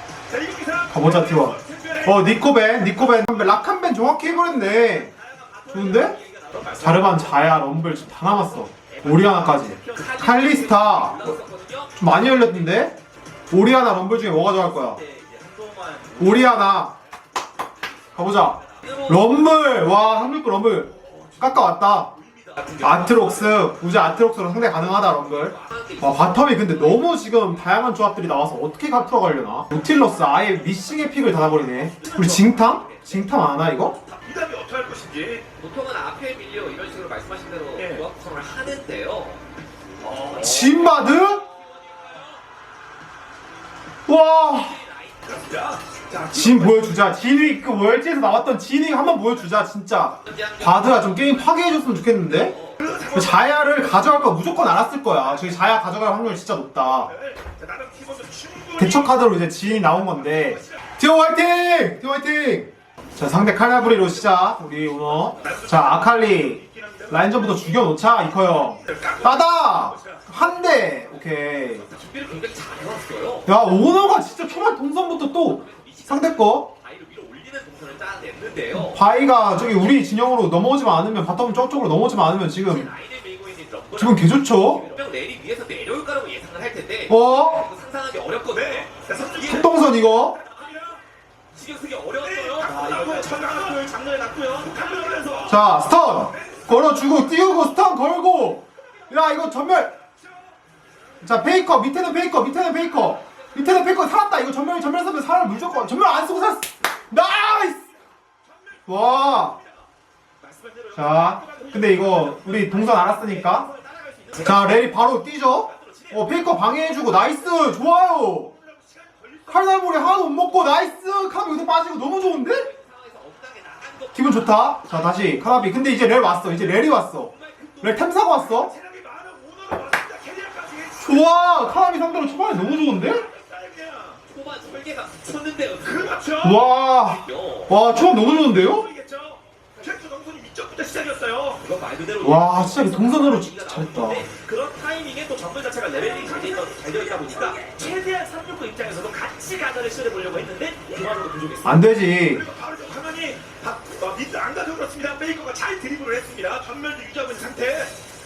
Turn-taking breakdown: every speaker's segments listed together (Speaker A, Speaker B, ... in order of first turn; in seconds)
Speaker A: 0.2-2.4, 5.2-7.2, 9.8-10.1, 15.0-16.4, 22.2-22.6, 31.7-33.2, 34.0-35.4, 37.8-38.0, 40.0-40.7, 45.3-47.0, 52.8-53.4, 57.0-60.8, 65.0-67.9, 68.7-70.2, 88.5-89.8, 90.4-91.0, 92.2-95.7, 96.3-97.3, 108.4-108.9, 110.4-114.6, 115.6-117.9, 118.5-120.2, 128.3-134.2, 135.8-136.6, 138.0-141.6, 144.3-157.9
Speaker B: 0.9-5.1, 5.7-6.2, 6.8-11.4, 12.0-12.9, 13.5-15.0, 16.2-16.9, 18.1-22.1, 22.8-34.0, 40.3-41.4, 44.1-44.8, 46.3-52.6, 53.1-57.1, 58.8-71.8, 73.5-76.7, 78.7-82.9, 84.0-84.8, 87.1-87.7, 89.4-90.4, 95.4-99.9, 101.2-107.8, 108.9-109.6, 110.9-113.7, 114.4-118.5, 119.5-122.7, 124.1-127.3, 127.8-128.7, 131.0-133.2, 136.4-138.9, 142.2-144.2, 151.6-152.5
Speaker C: 5.6-7.3, 8.9-12.7, 14.5-16.3, 18.7-19.3, 22.6-23.7, 24.8-27.2, 30.1-31.5, 35.6-39.4, 40.2-42.2, 44.6-45.4, 50.2-52.8, 71.8-73.6, 74.1-74.5, 75.3-79.0, 82.6-89.9, 90.5-91.0, 91.5-95.4, 122.5-126.2, 127.3-128.1, 134.2-136.4, 137.0-137.8, 141.6-144.4, 145.7-147.8, 151.1-151.8